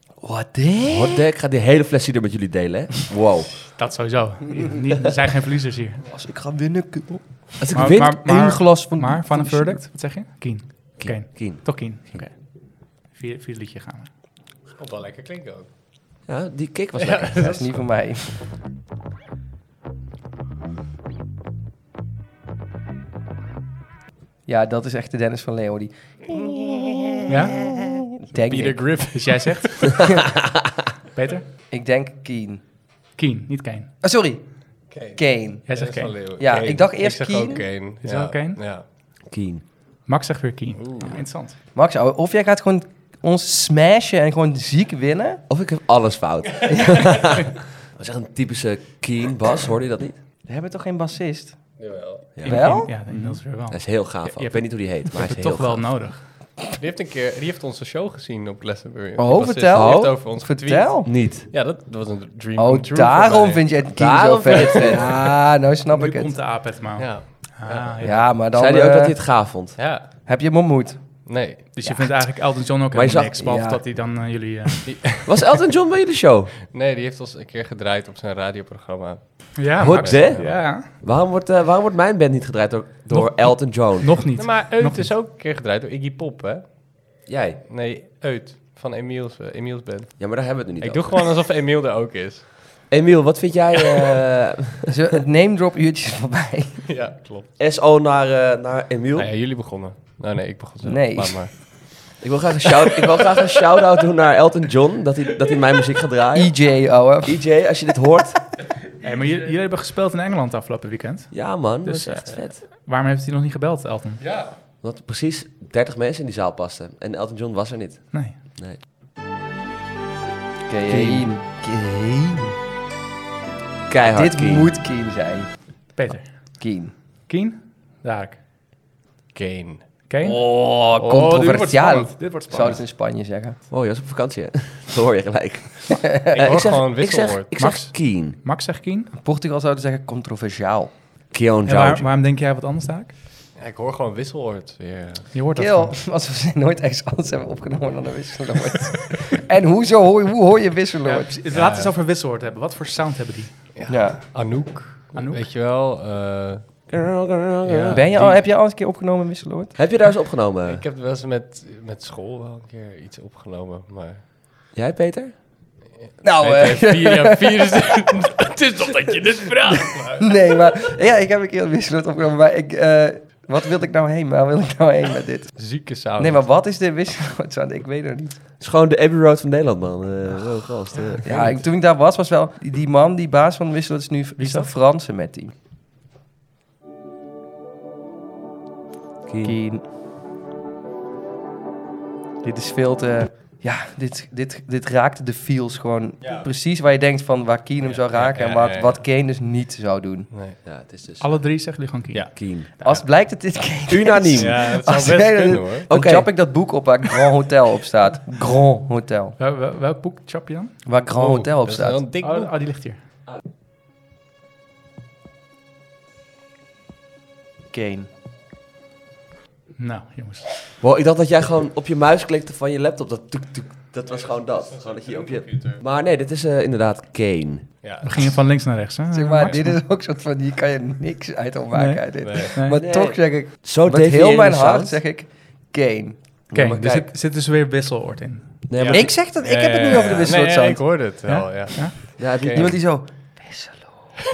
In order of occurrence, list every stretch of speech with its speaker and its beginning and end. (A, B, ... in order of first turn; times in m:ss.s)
0:00.2-0:01.2 A
0:00.9-0:03.6 B
0:03.7-0:06.0 C
0:06.1-0:09.8 A
0:07.6-0:08.2 B
0:07.7-0:14.1 C
0:11.0-0:12.2 B
0:14.8-0:15.7 D
0:16.3-0:17.5 B
0:17.0-0:17.7 D
0:17.4-0:18.3 A
0:24.5-0:28.9 A
0:26.5-0:30.0 D
0:27.3-0:27.6 C
0:29.1-0:30.4 C
0:31.1-0:31.5 C
0:31.7-0:32.6 A
0:33.2-0:33.9 C
0:34.0-0:34.4 A
0:34.9-0:38.8 D
0:35.2-0:35.7 A
0:35.7-0:36.2 C
0:36.4-0:37.7 A
0:38.0-0:38.6 C
0:39.3-0:39.6 B
0:40.1-0:41.6 C
0:40.8-0:41.2 D
0:41.8-0:45.4 A
0:45.5-0:50.2 B
0:46.7-0:47.0 A
0:50.5-0:51.6 A
0:51.8-0:52.3 D
0:52.4-0:55.8 B
0:52.4-0:56.2 C
0:52.4-0:52.9 A
0:56.7-1:03.6 D
0:59.2-1:01.1 A
0:59.7-1:00.2 B
1:01.1-1:01.5 B
1:02.6-1:06.3 A
1:03.9-1:05.4 B
1:06.0-1:08.2 C
1:07.0-1:08.1 D
1:08.0-1:09.2 A
1:08.5-1:09.8 B
1:09.8-1:10.1 D
1:10.2-1:11.0 A
1:11.3-1:11.7 D
1:11.8-1:15.2 C
1:12.9-1:13.5 B
1:13.4-1:13.8 A
1:14.9-1:15.3 D
1:15.2-1:16.6 B
1:16.7-1:20.6 D
1:19.6-1:20.9 C
1:19.8-1:24.3 B
1:23.1-1:25.1 C
1:24.4-1:26.9 D
1:27.3-1:27.6 B
1:27.7-1:32.8 D
1:30.2-1:31.2 B
1:32.9-1:34.9 B
1:34.9-1:36.8 A
1:36.9-1:37.5 D
1:37.6-1:39.3 B
1:39.2-1:42.2 D
1:40.8-1:41.5 A
1:42.2-1:48.5 B
1:46.4-1:47.4 A
1:49.0-1:54.2 C
1:51.3-1:52.6 B
1:54.2-1:54.6 D
1:54.8-1:58.8 B
2:00.7-2:02.6 A
2:00.9-2:01.3 B
2:03.9-2:04.7 B
2:04.1-2:05.5 A
2:06.0-2:06.6 C
2:06.6-2:06.9 A
2:07.3-2:08.4 C
2:09.3-2:09.8 D
2:10.1-2:12.8 C
2:10.2-2:13.6 A
2:13.7-2:18.4 B
2:16.0-2:16.4 A
2:16.3-2:17.6 D
2:17.6-2:19.1 C
2:19.1-2:20.9 A
2:21.3-2:22.1 B
2:21.7-2:23.1 C
2:23.6-2:25.3 D
2:25.3-2:26.0 C
2:25.6-2:31.3 A
2:31.1-2:33.6 C
2:31.5-2:31.9 D
2:33.8-2:36.7 D
2:33.9-2:34.2 A
2:35.2-2:35.4 C
2:36.9-2:38.4 B
2:37.6-2:38.4 D
2:37.9-2:39.8 A
2:39.8-2:40.8 B
2:40.7-2:44.2 D
2:44.8-2:45.3 B
2:46.1-2:50.4 D
2:46.2-2:48.1 A
2:50.2-2:55.6 A
2:55.6-2:56.4 D
2:56.2-2:58.4 A
2:58.6-3:01.6 B
3:01.2-3:05.5 A
3:04.4-3:04.7 C
3:09.3-3:09.6 B
3:09.4-3:09.8 A
3:12.4-3:20.3 A
3:16.2-3:16.5 D
3:17.8-3:19.0 D
3:20.3-3:20.6 D
3:20.6-3:21.3 B
3:21.2-3:22.9 C
3:22.4-3:22.7 B
3:22.8-3:29.4 A
3:23.9-3:24.7 B
3:24.4-3:25.9 D
3:25.9-3:26.3 B
3:29.4-3:30.8 C
3:30.8-3:32.0 A
3:31.1-3:32.5 D
3:32.2-3:33.0 C
3:37.7-3:38.1 A
3:39.8-3:40.5 C
3:40.8-3:47.7 B
3:44.1-3:45.8 D
3:47.8-3:48.4 D
3:48.0-3:49.8 C
3:49.1-3:57.1 A
3:51.7-3:52.8 C
3:52.2-3:52.5 D
3:52.7-3:55.0 B
3:56.5-3:58.6 C
3:58.7-3:59.1 B
3:58.8-4:02.7 D
3:58.9-4:00.8 A
4:01.3-4:02.2 C
4:02.2-4:02.8 B
4:02.5-4:04.1 A